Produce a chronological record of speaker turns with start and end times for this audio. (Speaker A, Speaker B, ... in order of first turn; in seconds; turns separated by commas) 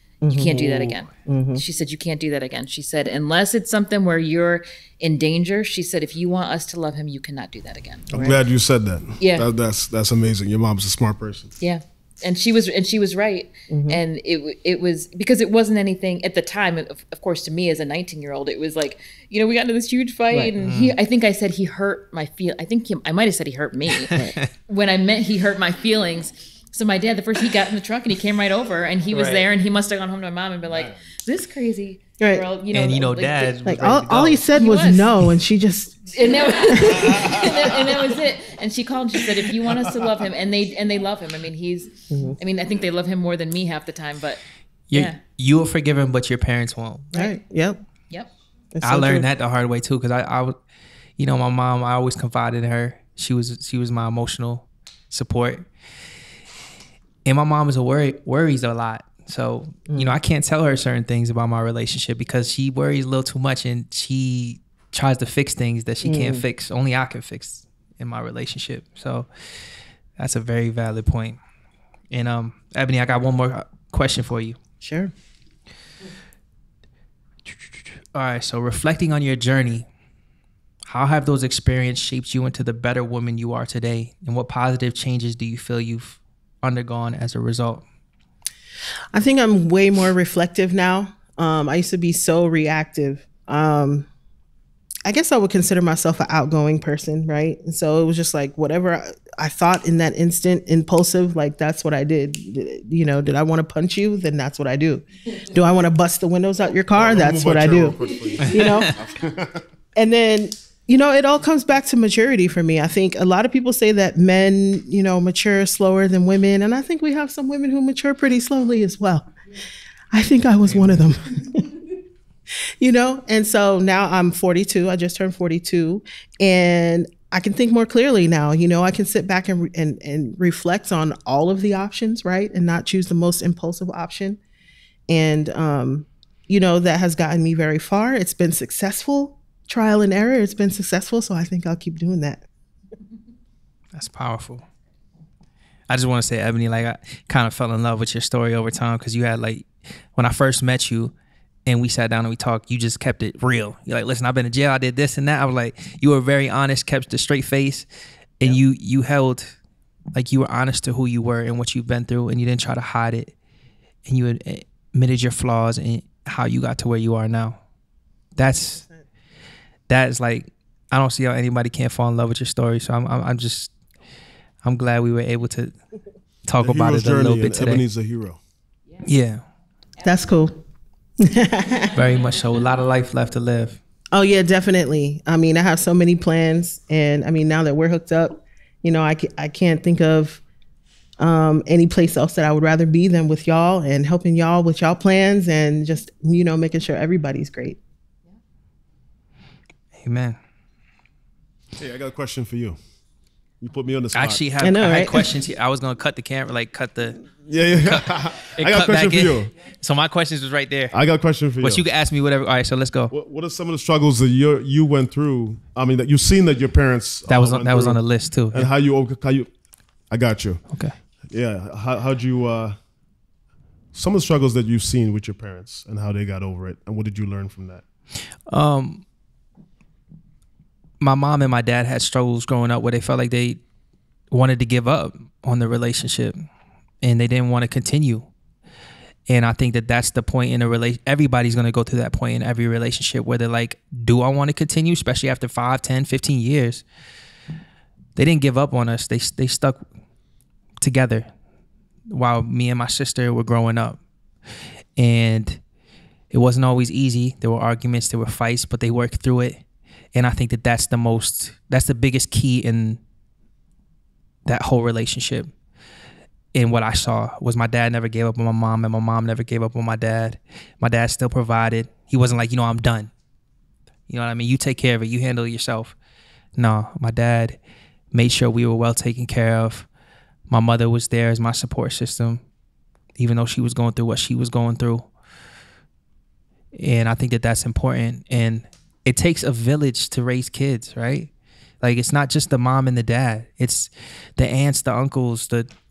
Speaker A: 0.2-0.6, Speaker B: 0.2-8.2, Speaker A: 1.2-1.6, Speaker C: 8.1-11.5, Speaker A: 8.1-8.4, Speaker B: 9.2-9.5, Speaker B: 11.6-33.7, Speaker A: 13.7-14.0, Speaker D: 20.6-20.9, Speaker D: 29.1-29.4, Speaker C: 30.7-31.0, Speaker A: 32.2-32.4, Speaker D: 32.7-34.4, Speaker A: 33.6-37.7, Speaker B: 34.5-35.1, Speaker B: 36.1-45.2, Speaker C: 37.1-37.4, Speaker A: 42.1-42.4, Speaker D: 44.9-47.1, Speaker A: 47.1-47.8, Speaker A: 48.7-49.3, Speaker D: 48.8-50.6, Speaker D: 51.2-55.6, Speaker D: 57.2-69.3, Speaker A: 59.9-60.1, Speaker A: 66.0-66.4, Speaker D: 70.2-71.4, Speaker D: 72.1-74.6, Speaker A: 74.8-75.1, Speaker D: 77.5-79.8, Speaker D: 80.9-87.8, Speaker A: 89.1-94.1, Speaker A: 95.0-109.0, Speaker C: 106.9-109.6, Speaker A: 109.9-119.3, Speaker A: 120.1-121.8, Speaker A: 122.8-134.4, Speaker A: 135.1-142.4, Speaker D: 143.9-144.7, Speaker D: 145.9-151.1, Speaker D: 151.7-157.9, Speaker D: 158.4-159.6, Speaker D: 160.1-163.3, Speaker D: 164.1-167.6, Speaker D: 168.3-168.8, Speaker A: 168.4-169.1, Speaker D: 169.9-173.7, Speaker D: 174.6-175.7, Speaker D: 176.4-177.8, Speaker C: 176.6-178.4, Speaker D: 179.0-179.4, Speaker B: 180.0-180.3, Speaker A: 180.0-180.6, Speaker A: 181.2-181.9, Speaker B: 181.7-182.1, Speaker D: 181.9-183.8, Speaker A: 184.1-190.4, Speaker A: 191.2-197.8, Speaker D: 200.0-200.4, Speaker C: 201.8-202.8, Speaker C: 203.6-204.4, Speaker D: 204.1-210.9, Speaker A: 204.6-205.3, Speaker C: 207.4-209.5, Speaker C: 210.9-211.8, Speaker D: 211.6-213.1, Speaker C: 213.1-218.0, Speaker D: 217.3-218.7, Speaker C: 218.5-219.5, Speaker C: 220.1-220.7, Speaker C: 221.3-222.8, Speaker C: 223.9-227.8, Speaker D: 228.5-229.0, Speaker D: 231.0-233.6, Speaker D: 234.3-236.4, Speaker D: 237.0-238.3, Speaker D: 239.3-246.8, Speaker D: 248.2-249.8, Speaker D: 250.8-251.3, Speaker D: 252.1-254.0, Speaker D: 255.0-255.6, Speaker D: 256.3-263.0, Speaker D: 264.4-265.5, Speaker D: 266.5-273.1, Speaker D: 274.1-275.9, Speaker D: 276.6-277.6, Speaker D: 278.1-279.9, Speaker D: 280.5-282.4, Speaker D: 283.2-285.1, Speaker D: 286.7-291.3, Speaker D: 291.8-295.7